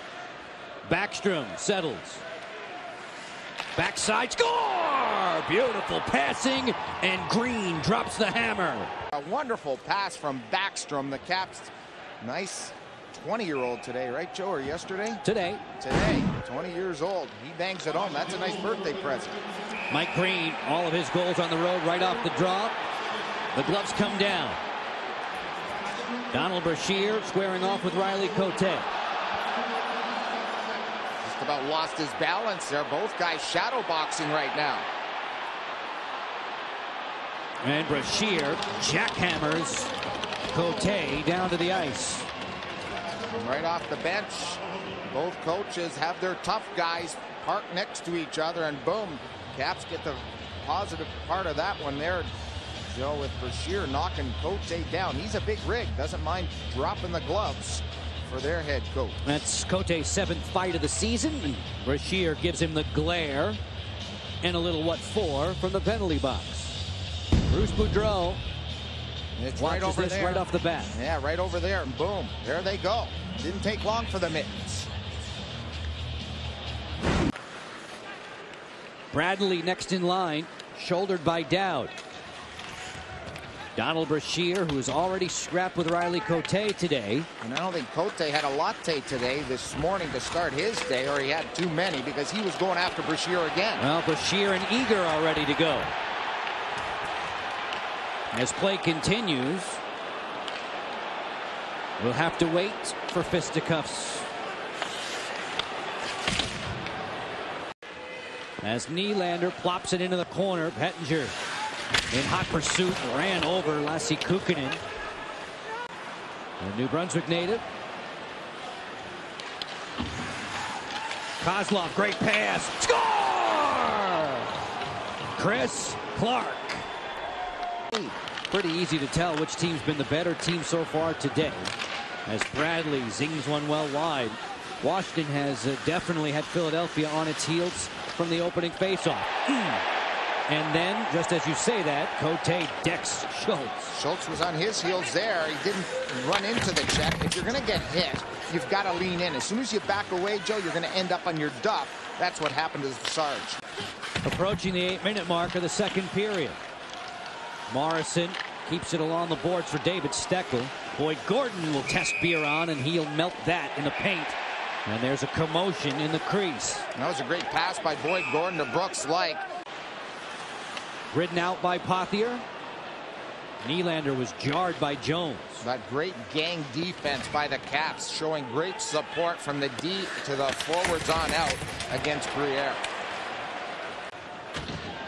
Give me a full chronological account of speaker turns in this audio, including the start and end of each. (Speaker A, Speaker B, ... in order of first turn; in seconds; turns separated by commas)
Speaker A: 0.8-2.2, Speaker A: 3.8-8.9, Speaker B: 9.1-15.2, Speaker A: 15.2-15.6, Speaker B: 15.8-19.4, Speaker A: 19.9-22.7, Speaker A: 23.5-24.6, Speaker A: 26.3-28.9, Speaker B: 31.2-34.9, Speaker A: 37.6-39.9, Speaker A: 40.5-42.3, Speaker B: 43.4-52.3, Speaker B: 52.9-59.2, Speaker A: 59.2-63.6, Speaker A: 64.4-66.8, Speaker A: 67.5-68.4, Speaker B: 69.4-74.9, Speaker A: 69.5-70.9, Speaker A: 79.1-81.9, Speaker A: 83.8-87.3, Speaker B: 87.4-93.8, Speaker A: 93.8-95.9, Speaker A: 98.3-99.8, Speaker A: 102.0-104.3, Speaker A: 108.6-111.3, Speaker A: 112.1-114.8, Speaker A: 116.6-117.6, Speaker A: 121.4-124.5, Speaker A: 125.3-126.8, Speaker A: 127.9-131.7, Speaker A: 132.2-139.8, Speaker A: 140.5-143.9, Speaker B: 143.9-153.6, Speaker A: 154.2-156.6, Speaker A: 157.7-166.9, Speaker B: 166.9-169.4, Speaker A: 171.1-172.4, Speaker A: 173.6-175.6, Speaker B: 175.6-182.8